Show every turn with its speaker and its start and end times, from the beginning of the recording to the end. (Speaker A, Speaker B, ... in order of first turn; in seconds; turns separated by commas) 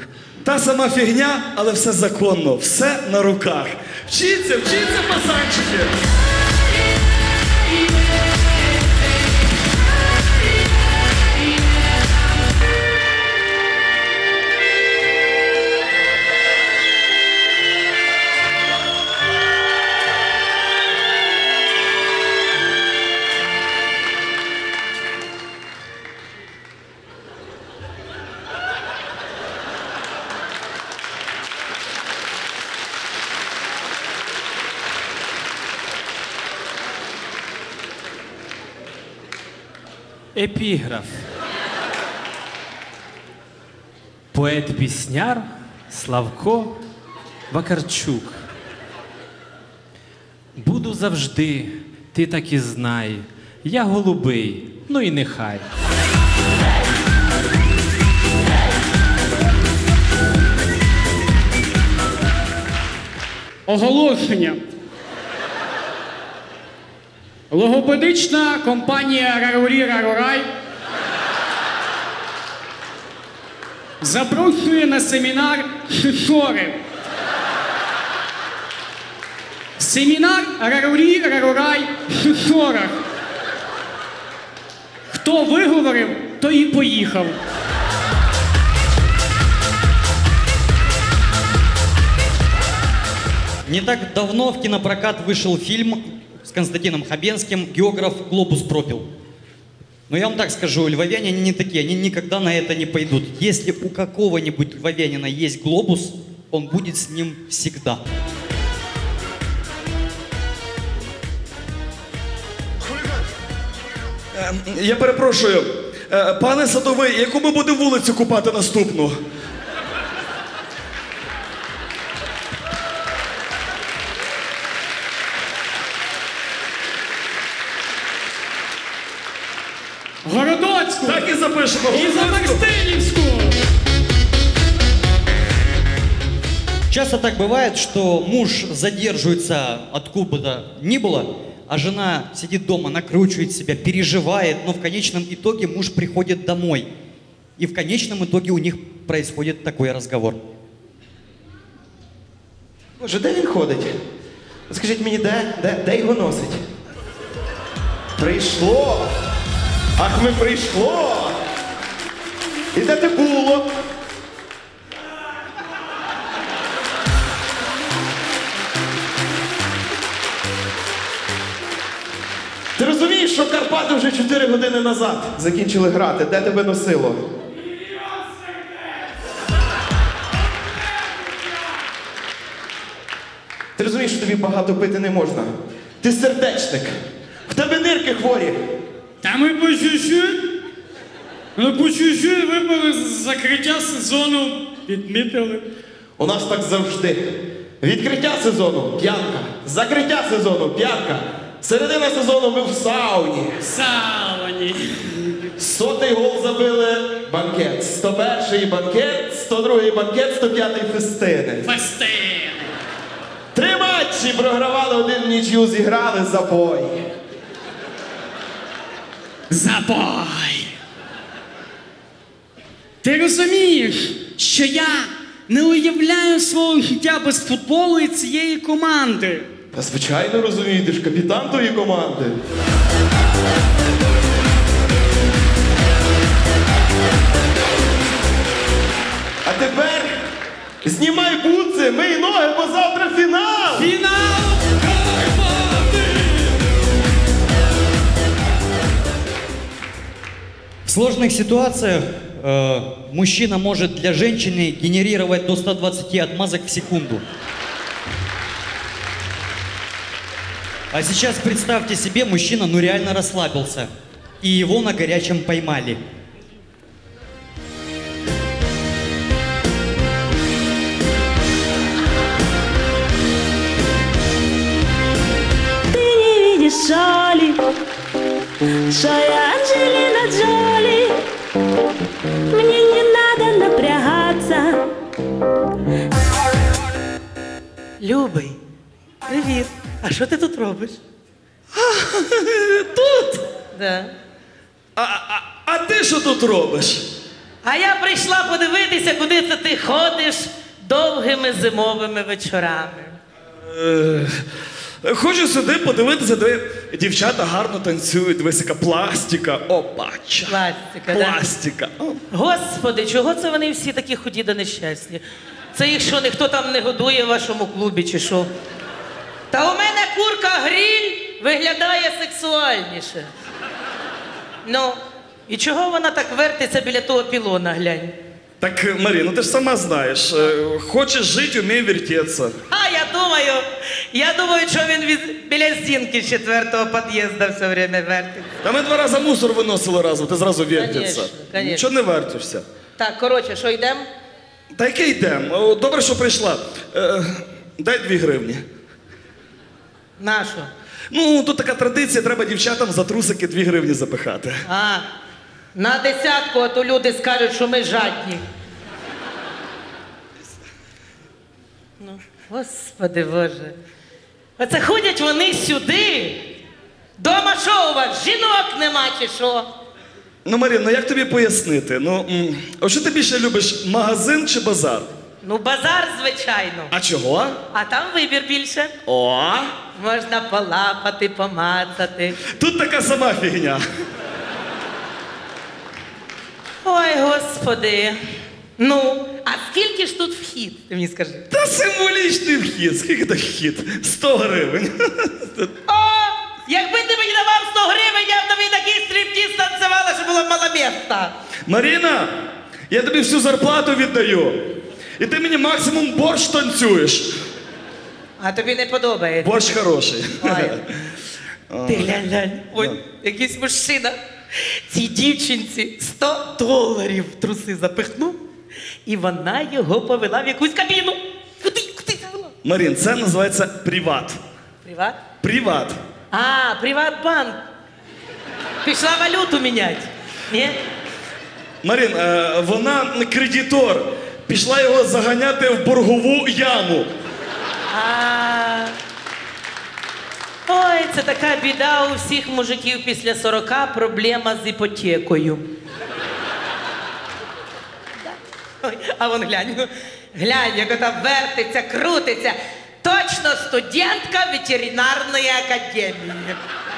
Speaker A: 0.4-5.9, Speaker B: 40.3-41.2, Speaker B: 44.3-46.8, Speaker B: 47.5-48.4, Speaker B: 50.5-55.6, Speaker C: 63.7-64.6, Speaker C: 67.5-70.5, Speaker C: 74.0-76.8, Speaker C: 79.8-83.0, Speaker C: 85.1-87.4, Speaker D: 93.7-99.1, Speaker D: 100.1-108.0, Speaker A: 114.3-119.2, Speaker C: 130.2-131.3, Speaker A: 131.0-132.7, Speaker C: 131.9-133.6, Speaker D: 136.9-146.9, Speaker D: 147.6-150.4, Speaker E: 153.0-153.9, Speaker E: 154.7-156.6, Speaker E: 158.2-159.1, Speaker E: 160.0-161.3, Speaker E: 162.7-163.7, Speaker E: 172.8-177.2, Speaker C: 178.2-178.6, Speaker E: 183.8-186.9, Speaker E: 187.5-188.6, Speaker C: 189.2-190.5, Speaker C: 191.6-195.7, Speaker E: 196.2-203.8, Speaker C: 203.7-205.5, Speaker E: 205.6-211.7, Speaker C: 211.6-212.7, Speaker E: 213.5-217.1, Speaker C: 219.5-220.7, Speaker C: 223.0-229.5, Speaker E: 229.7-232.3, Speaker E: 239.4-240.1, Speaker E: 240.8-243.9, Speaker C: 244.0-246.3, Speaker D: 250.8-257.2, Speaker D: 260.9-263.9, Speaker D: 264.4-266.0, Speaker F: 275.9-277.6, Speaker F: 278.9-281.2, Speaker F: 282.5-284.8, Speaker G: 288.0-288.6, Speaker G: 289.3-291.0, Speaker A: 291.7-293.4, Speaker G: 293.7-294.1, Speaker A: 294.9-297.1, Speaker G: 297.6-303.2, Speaker A: 303.7-304.4, Speaker A: 305.0-310.6, Speaker G: 310.5-311.4, Speaker A: 311.1-312.2, Speaker G: 312.3-318.5, Speaker G: 319.5-323.3, Speaker G: 324.6-328.1, Speaker A: 328.6-332.6, Speaker G: 332.7-338.5, Speaker A: 338.6-342.6, Speaker G: 340.7-341.8, Speaker G: 343.0-344.1, Speaker A: 344.7-348.6, Speaker G: 350.2-350.7, Speaker A: 351.1-354.6, Speaker G: 354.7-355.1, Speaker G: 355.7-358.4, Speaker G: 362.0-363.8, Speaker G: 364.6-366.5, Speaker G: 367.2-369.7, Speaker A: 370.4-375.1, Speaker G: 375.4-376.9, Speaker A: 376.9-377.6, Speaker G: 377.7-378.9, Speaker A: 379.1-379.7, Speaker G: 379.9-382.4, Speaker A: 382.5-383.8, Speaker G: 386.8-388.2, Speaker G: 388.8-391.4, Speaker A: 391.5-395.7, Speaker G: 395.9-401.3, Speaker A: 401.6-402.3, Speaker A: 402.9-404.6, Speaker A: 405.2-407.4, Speaker G: 408.4-409.8, Speaker A: 409.4-410.9, Speaker G: 410.4-410.8, Speaker A: 411.7-412.2, Speaker G: 411.9-414.2, Speaker G: 414.9-418.4, Speaker G: 419.1-422.5, Speaker A: 422.6-424.4, Speaker G: 424.8-425.2, Speaker A: 425.4-426.0, Speaker G: 426.3-427.6, Speaker G: 428.8-430.8, Speaker A: 431.8-437.1, Speaker G: 437.9-438.9, Speaker G: 440.7-445.6, Speaker G: 448.2-456.6